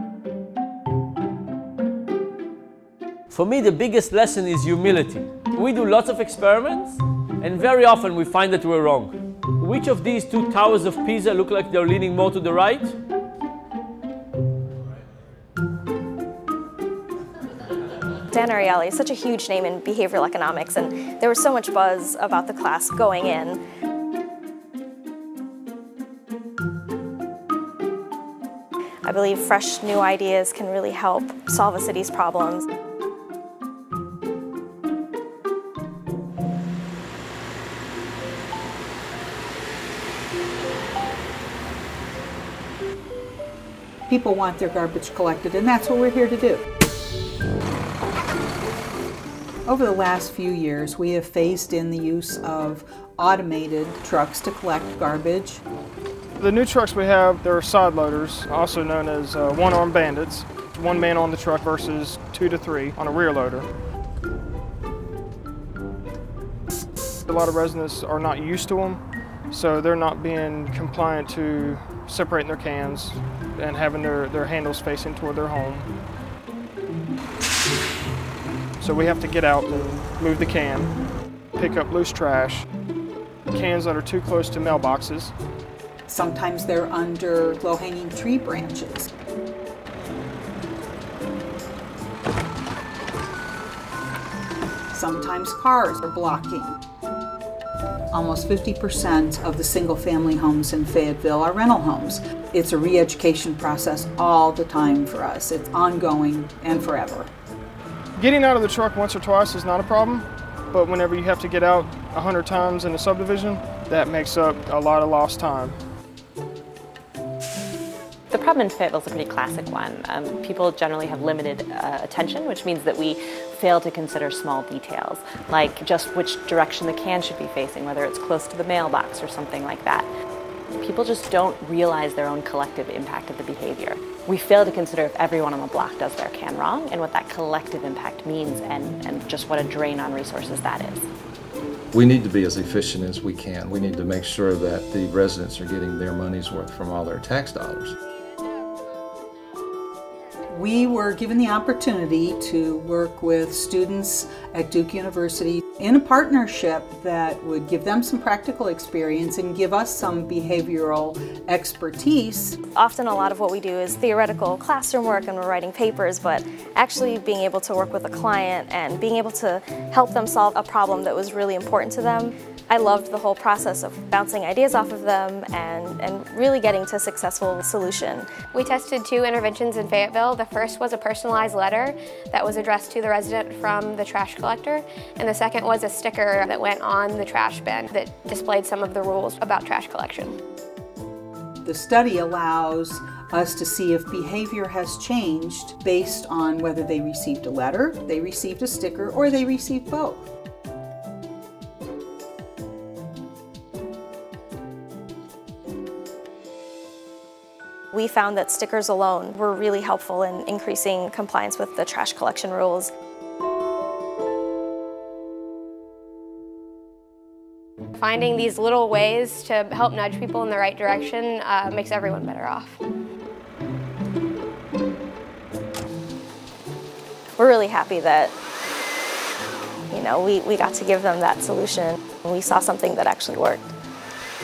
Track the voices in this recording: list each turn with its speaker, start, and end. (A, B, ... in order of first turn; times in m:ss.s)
0:03.3-0:13.0 A
0:18.3-0:23.6 B
0:29.0-0:32.6 B
0:44.1-0:46.6 C
0:49.7-0:55.6 C
0:56.4-1:03.7 D
1:07.3-1:15.9 D
1:18.8-1:20.9 D
1:21.6-1:22.7 D
1:23.5-1:25.3 D
1:26.1-1:29.1 C
1:34.9-1:36.8 C
1:38.1-1:47.3 C
1:48.2-1:55.8 D
1:58.3-2:10.1 E
2:10.8-2:21.1 E
2:21.9-2:28.0 F
2:30.5-2:42.6 C
2:42.8-2:58.3 B
2:58.5-3:10.4 G
3:11.6-3:20.3 C
3:27.9-3:32.9 B
3:38.0-3:42.8 G
3:47.4-3:48.3 B
3:49.9-3:53.7 B